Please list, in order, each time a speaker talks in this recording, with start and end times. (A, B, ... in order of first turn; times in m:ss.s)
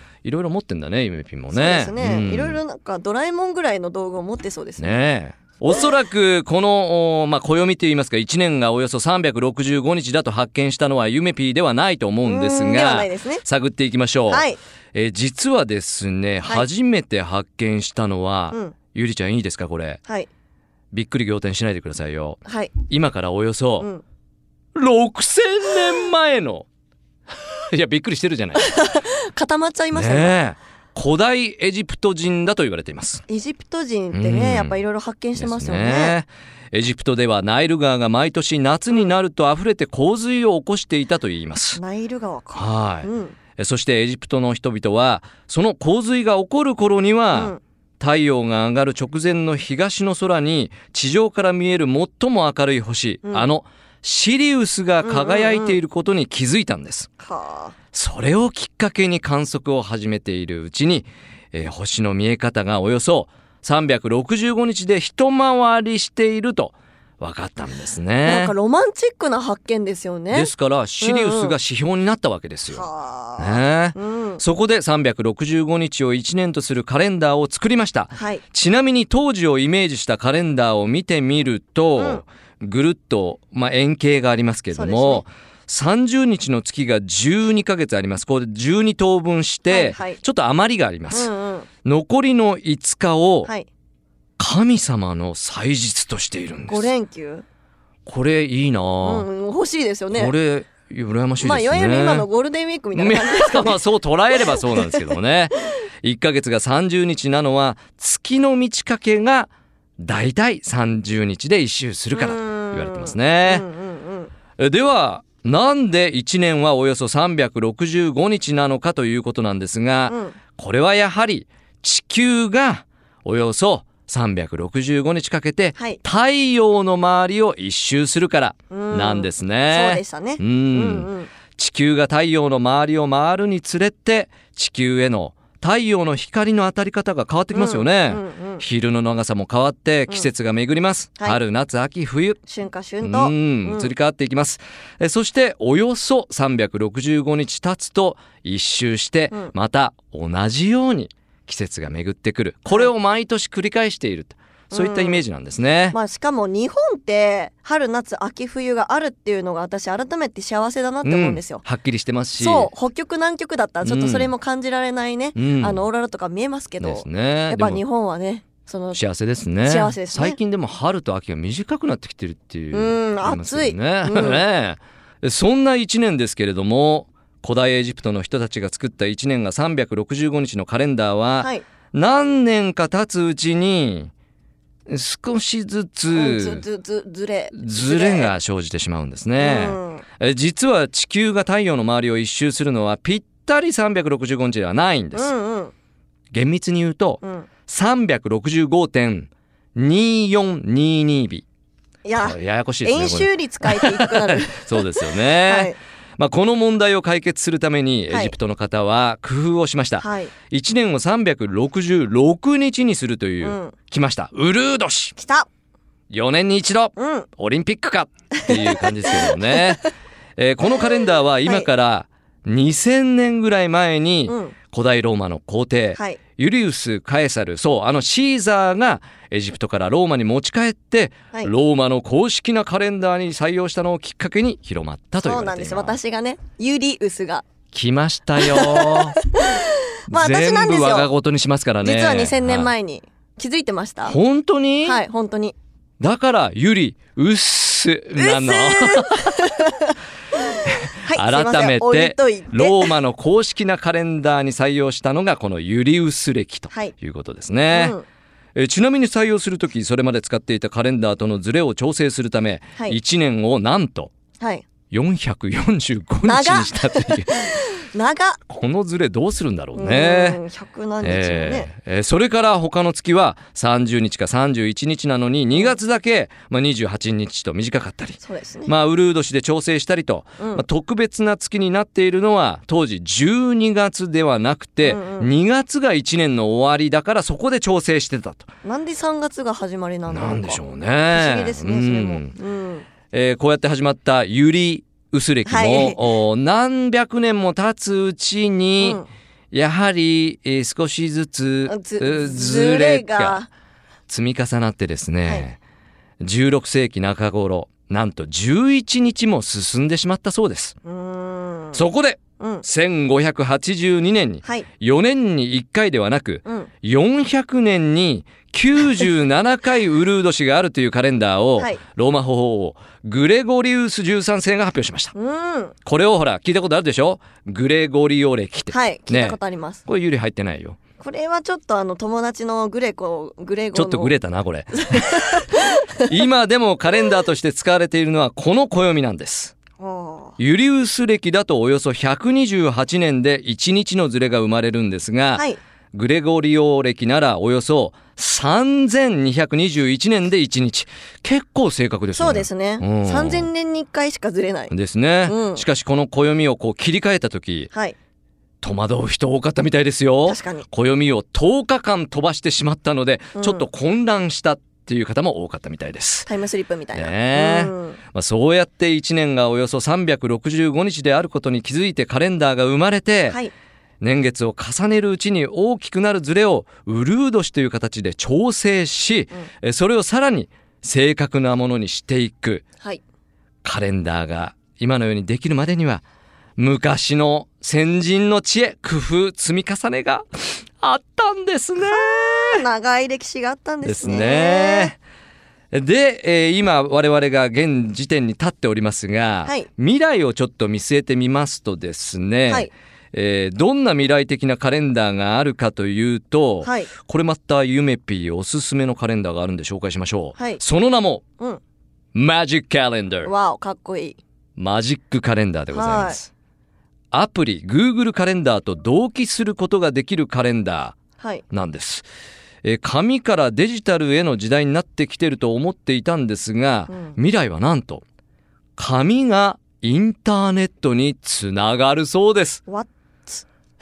0:00.2-0:02.6 A
0:01.5-0:04.9 B
0:04.8-0:20.0 A
0:12.2-0:13.4 B
0:14.3-0:14.6 B
0:20.9-0:23.9 A
0:22.4-0:22.7 B
0:24.7-0:26.6 A
0:27.7-0:28.8 A
0:28.6-0:30.4 B
0:29.9-0:33.2 A
0:33.3-0:36.2 B
0:34.1-0:34.8 A
0:35.4-0:41.8 A
0:41.8-0:43.4 B
0:42.5-0:57.1 A
0:47.3-0:47.6 B
0:55.0-0:55.8 B
0:57.2-0:57.7 B
0:57.9-1:08.5 A
1:08.2-1:11.5 B
1:10.3-1:12.8 A
1:12.7-1:14.4 B
1:13.4-1:31.3 A
1:18.1-1:18.4 B
1:22.0-1:22.2 B
1:24.7-1:25.2 B
1:29.7-1:30.2 B
1:31.1-1:31.7 B
1:31.8-1:33.5 A
1:34.4-1:36.9 A
1:36.7-1:37.4 B
1:38.0-1:39.3 A
1:39.0-1:40.3 B
1:40.1-1:42.3 A
1:41.4-1:43.8 B
1:42.9-1:53.7 A
1:44.4-1:45.0 B
1:52.1-1:54.3 B
1:54.6-2:22.4 A
2:00.1-2:00.4 B
2:05.8-2:06.0 B
2:08.7-2:11.3 B
2:17.5-2:18.6 B
2:22.4-2:23.9 B
2:23.0-2:36.0 A
2:34.7-2:35.2 B
2:35.9-2:41.6 B
2:41.0-2:42.7 A
2:42.4-2:49.0 B
2:43.8-2:44.3 A
2:45.4-2:45.8 A
2:46.8-2:47.8 A
2:48.9-3:04.1 A
2:49.6-2:50.4 B
2:52.7-2:54.4 B
3:04.9-3:06.6 A
3:06.1-3:08.3 B
3:07.5-3:15.3 A
3:09.4-3:10.0 B
3:15.1-3:15.7 B
3:16.3-3:21.4 A
3:17.2-3:17.5 B
3:22.0-3:25.8 B
3:22.2-3:35.2 A
3:28.1-3:28.3 B
3:30.0-3:30.3 B
3:33.4-3:33.7 B
3:35.2-3:35.5 B
3:36.1-3:39.8 A
3:37.0-3:37.3 B
3:38.5-3:39.6 B
3:40.4-3:56.0 A
3:41.4-3:41.7 B
3:44.3-3:44.5 B
3:55.2-3:57.4 B
3:57.7-3:59.2 A
3:58.4-4:01.1 B
4:00.1-4:02.7 A
4:01.8-4:04.2 B
4:04.0-4:05.0 A
4:04.8-4:05.6 B
4:06.0-4:09.5 A
4:08.2-4:10.0 B
4:10.5-4:12.9 B
4:10.6-4:18.0 A
4:17.7-4:18.0 B
4:18.6-4:24.1 A
4:24.4-4:24.6 B
4:24.9-4:27.3 A
4:26.2-4:28.4 B
4:28.5-4:30.4 A
4:29.7-4:31.7 B
4:31.0-4:48.5 A
4:38.2-4:38.7 B
4:40.4-4:40.6 B
4:44.8-4:45.3 B
4:48.6-4:52.8 B
4:50.1-4:52.4 A
4:53.1-4:59.0 A
4:55.4-4:56.1 B
4:58.8-4:59.1 B
4:59.5-5:03.4 A
5:01.7-5:03.5 B
5:04.1-5:05.6 A
5:06.2-5:10.7 A
5:10.8-5:11.8 B
5:11.7-5:25.1 A
5:12.4-5:12.6 B
5:25.1-5:25.7 B
5:25.8-5:30.8 A
5:28.7-5:29.8 B
5:31.0-5:34.1 B
5:33.7-5:39.5 A
5:34.7-5:36.1 B
5:39.8-5:40.4 B
5:40.4-5:53.5 A
5:52.1-5:54.7 B
5:54.7-5:57.7 A
5:55.2-5:55.6 B
5:58.6-6:06.3 A
6:00.2-6:00.7 B
6:03.4-6:03.6 B
6:06.3-6:08.0 B
6:06.9-6:13.4 A
6:14.0-6:22.6 A
6:23.6-6:26.0 A
6:26.6-6:32.6 A
6:31.9-6:34.9 B
6:33.8-6:35.0 A
6:35.7-6:51.2 A
6:46.6-6:46.9 B
6:52.1-6:53.3 A
6:53.2-6:54.2 B
6:54.6-6:56.3 A
6:55.7-6:56.2 B
6:57.1-7:01.0 A
7:01.2-7:01.4 B
7:01.5-7:02.0 A
7:02.6-7:08.0 A
7:06.9-7:07.2 B
7:08.8-7:12.6 A
7:12.7-7:13.4 B